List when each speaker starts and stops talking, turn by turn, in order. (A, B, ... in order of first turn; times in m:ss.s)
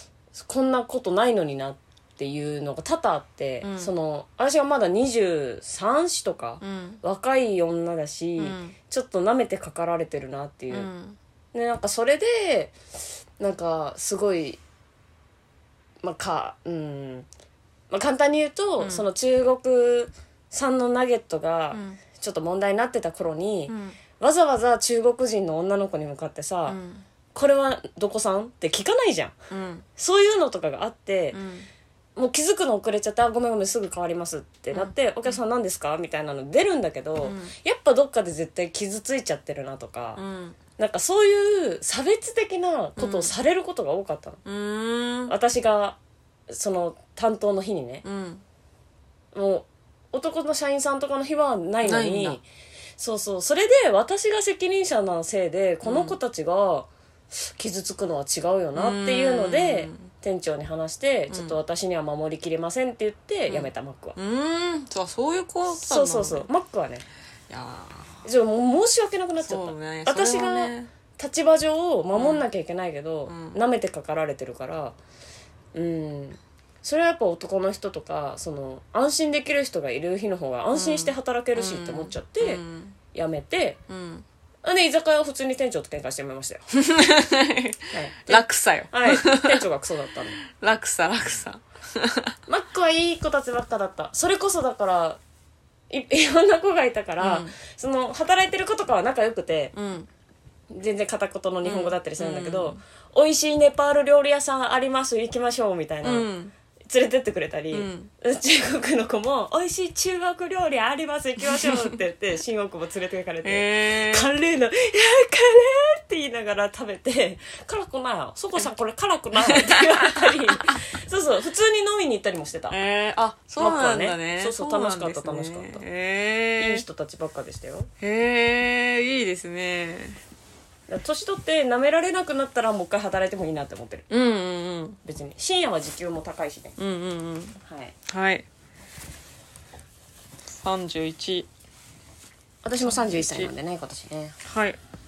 0:00.3-0:10.9 A
0:03.6-0:03.9 B
0:06.6-0:07.0 B
0:08.4-0:08.8 B
0:10.7-0:11.2 B
0:11.5-0:12.8 A
0:13.4-0:14.6 A
0:16.0-0:17.3 A
0:17.9-0:26.8 A
0:18.8-0:19.1 B
0:21.7-0:22.0 B
0:23.7-0:24.0 B
0:26.7-0:27.0 B
0:27.3-0:29.3 A
0:29.5-0:29.8 B
0:30.0-0:31.4 A
0:31.3-0:31.7 B
0:32.2-0:40.2 A
0:34.7-0:35.3 B
0:37.2-0:37.5 B
0:40.2-0:40.6 B
0:40.8-0:44.4 A
0:43.0-0:43.3 B
0:44.4-0:45.3 B
0:45.3-0:46.0 A
0:46.5-0:48.0 A
0:48.0-0:48.4 B
0:49.3-0:52.4 A
0:51.8-0:52.4 B
0:53.0-1:04.2 A
0:55.8-0:56.2 B
0:58.7-1:00.1 B
1:01.3-1:01.6 B
1:03.5-1:06.5 B
1:05.7-1:07.0 A
1:07.5-1:08.2 B
1:08.2-1:15.0 A
1:09.4-1:10.9 B
1:12.1-1:12.4 B
1:13.3-1:13.6 B
1:15.7-1:22.6 A
1:20.7-1:23.0 B
1:23.1-1:23.8 A
1:23.9-1:24.2 B
1:24.6-1:26.6 A
1:26.7-1:29.6 B
1:27.9-1:30.4 A
1:30.4-1:32.4 B
1:32.5-1:35.2 A
1:35.9-1:39.7 A
1:37.2-1:37.5 B
1:39.7-1:40.1 B
1:40.7-1:46.3 A
1:41.6-1:42.8 B
1:46.0-1:46.5 B
1:46.9-2:02.8 A
1:47.7-1:48.1 B
1:51.6-1:51.9 B
1:53.4-1:54.3 B
1:59.4-2:00.7 B
2:02.7-2:06.8 B
2:03.6-2:05.8 A
2:06.6-2:07.9 A
2:08.0-2:10.2 B
2:10.9-2:14.0 A
2:14.1-2:15.0 B
2:15.0-2:16.8 A
2:16.8-2:17.6 B
2:17.6-2:17.9 A
2:18.1-2:18.4 B
2:20.5-2:21.5 B
2:22.6-2:24.4 A
2:22.8-2:23.5 B
2:24.4-2:24.8 B